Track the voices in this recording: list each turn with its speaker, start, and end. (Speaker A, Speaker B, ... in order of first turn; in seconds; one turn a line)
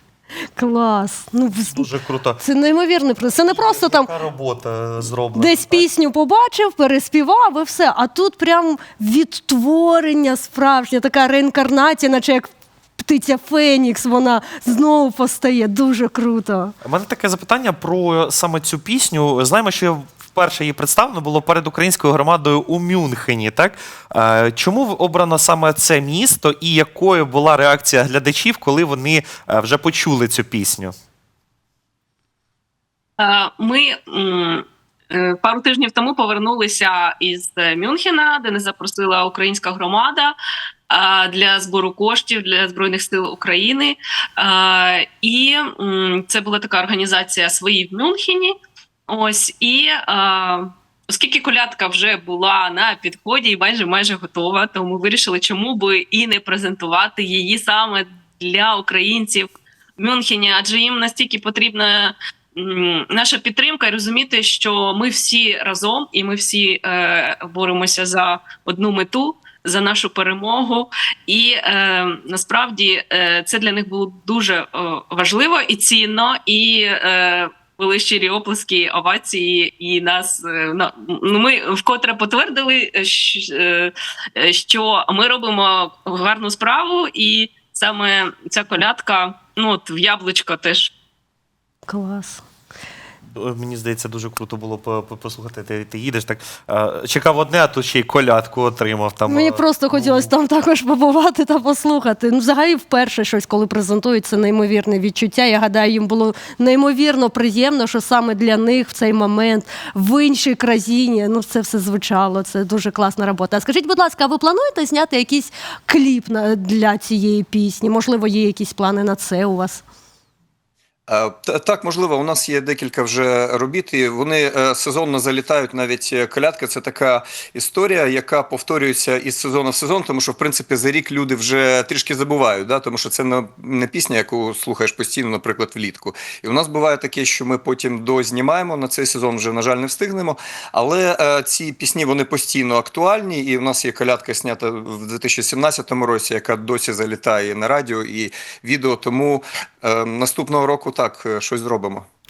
Speaker A: 0.6-4.1
Speaker B: 1.7-2.4
Speaker B: 3.4-5.8
Speaker A: 5.3-16.7
Speaker B: 16.8-30.9
Speaker C: 33.2-40.4
Speaker C: 40.9-48.5
Speaker C: 49.1-90.9
Speaker A: 91.8-92.4
Speaker B: 93.3-100.3
Speaker A: 99.3-119.8
Speaker D: 121.1-152.0